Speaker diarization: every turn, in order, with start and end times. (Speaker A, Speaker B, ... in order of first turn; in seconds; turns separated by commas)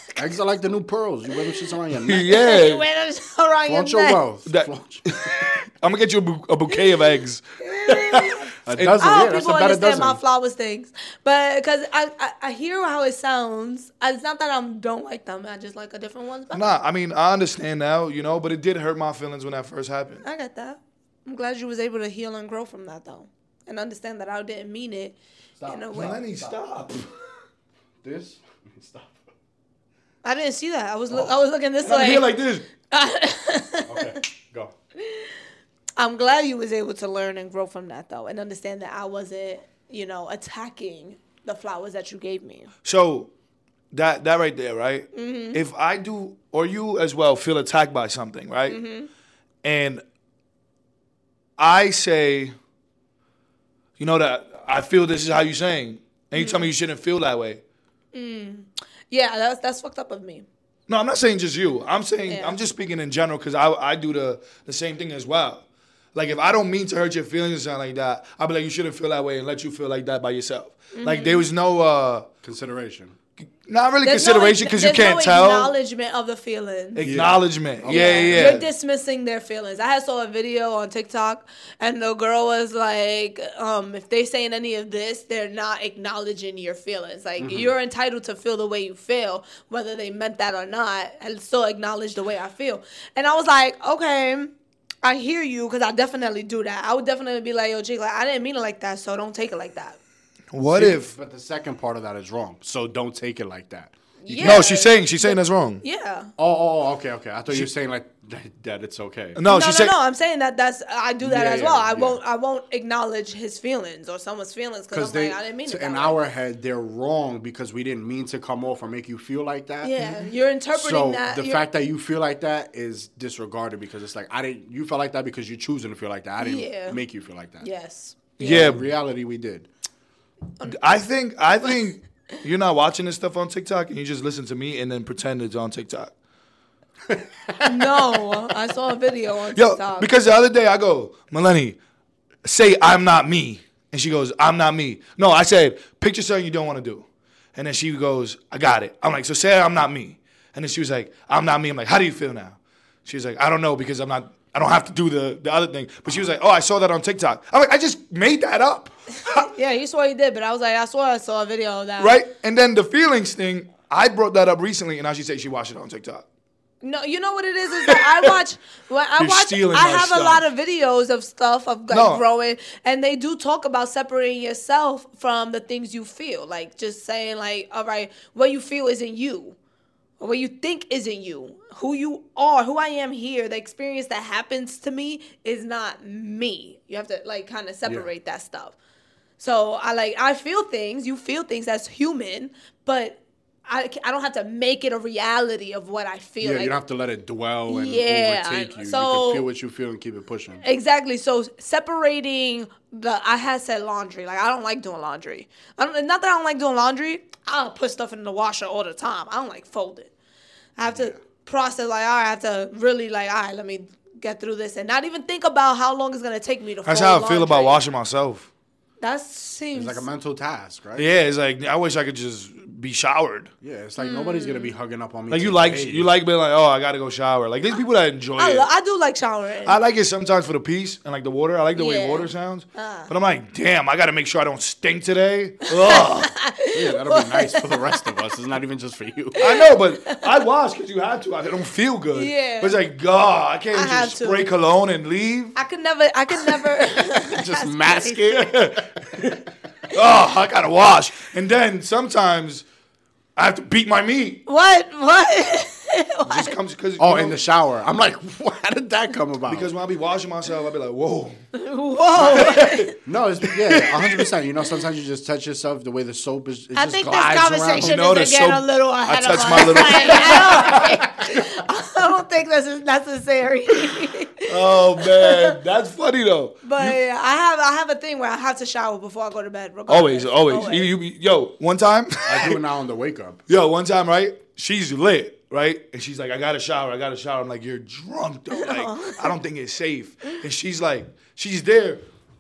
Speaker A: 0.1-2.4, Speaker B: 2.1-2.8, Speaker C: 2.3-4.2, Speaker A: 3.7-5.1, Speaker B: 4.5-9.0, Speaker C: 7.6-16.8, Speaker A: 8.7-10.2, Speaker B: 16.5-20.2, Speaker C: 20.2-26.2, Speaker A: 25.6-26.5, Speaker B: 25.9-27.1, Speaker A: 28.0-29.2, Speaker C: 30.2-32.3, Speaker B: 31.8-32.7, Speaker C: 32.9-34.1, Speaker A: 33.9-34.7, Speaker C: 35.0-35.3, Speaker C: 36.0-42.7, Speaker B: 42.9-43.3, Speaker B: 43.9-48.8, Speaker C: 45.1-45.6, Speaker C: 48.7-49.1, Speaker B: 49.6-50.0, Speaker B: 51.6-52.5, Speaker B: 54.0-57.6, Speaker C: 56.4-56.7, Speaker C: 58.1-60.5, Speaker B: 60.9-72.3, Speaker C: 62.3-62.6, Speaker C: 70.9-71.4, Speaker A: 72.4-73.1, Speaker B: 73.7-75.7, Speaker C: 74.0-77.0, Speaker B: 77.0-78.7, Speaker A: 77.0-78.6, Speaker C: 77.9-100.0, Speaker A: 87.4-87.7, Speaker B: 100.5-101.1, Speaker A: 100.7-104.7, Speaker C: 104.2-106.3, Speaker B: 104.4-105.8, Speaker A: 106.4-109.4, Speaker B: 109.4-109.9, Speaker C: 109.5-116.2, Speaker A: 111.2-112.2, Speaker A: 114.9-127.7, Speaker C: 119.8-121.6, Speaker C: 126.4-127.0, Speaker C: 127.6-128.8, Speaker B: 128.4-128.8, Speaker A: 128.4-129.7, Speaker B: 130.7-136.1, Speaker A: 137.1-138.2, Speaker C: 137.6-140.1, Speaker B: 139.5-141.8, Speaker B: 142.4-159.4, Speaker C: 159.4-162.1, Speaker B: 162.0-166.2, Speaker C: 166.8-179.6, Speaker B: 167.8-168.3, Speaker B: 169.2-170.5, Speaker B: 171.9-172.2, Speaker C: 180.2-188.8, Speaker C: 189.4-196.7, Speaker A: 196.4-200.6, Speaker C: 197.7-199.5, Speaker C: 200.6-210.1, Speaker C: 210.8-217.8, Speaker A: 210.9-211.1, Speaker B: 216.9-218.5, Speaker C: 219.0-220.0, Speaker A: 219.7-221.1, Speaker B: 220.9-223.5, Speaker A: 223.6-226.1, Speaker C: 224.0-224.7, Speaker B: 225.3-228.7, Speaker C: 228.4-229.8, Speaker B: 229.7-236.3, Speaker C: 231.8-233.1, Speaker C: 235.7-238.1, Speaker A: 236.7-239.4, Speaker B: 239.4-245.6, Speaker C: 239.4-240.3, Speaker C: 242.1-242.8, Speaker C: 243.7-244.4, Speaker C: 245.6-248.2, Speaker A: 247.1-248.5, Speaker B: 248.3-252.6, Speaker B: 253.4-254.4, Speaker C: 254.5-256.5, Speaker B: 256.3-257.4, Speaker A: 257.0-259.7, Speaker B: 259.5-261.4, Speaker C: 261.6-263.0, Speaker B: 262.1-262.9, Speaker A: 263.1-268.0, Speaker B: 263.5-264.3, Speaker C: 266.8-275.6, Speaker B: 267.8-271.0, Speaker B: 274.4-277.0, Speaker C: 276.6-280.9, Speaker B: 279.9-282.6, Speaker A: 282.3-283.4, Speaker B: 283.5-292.0, Speaker C: 288.5-289.4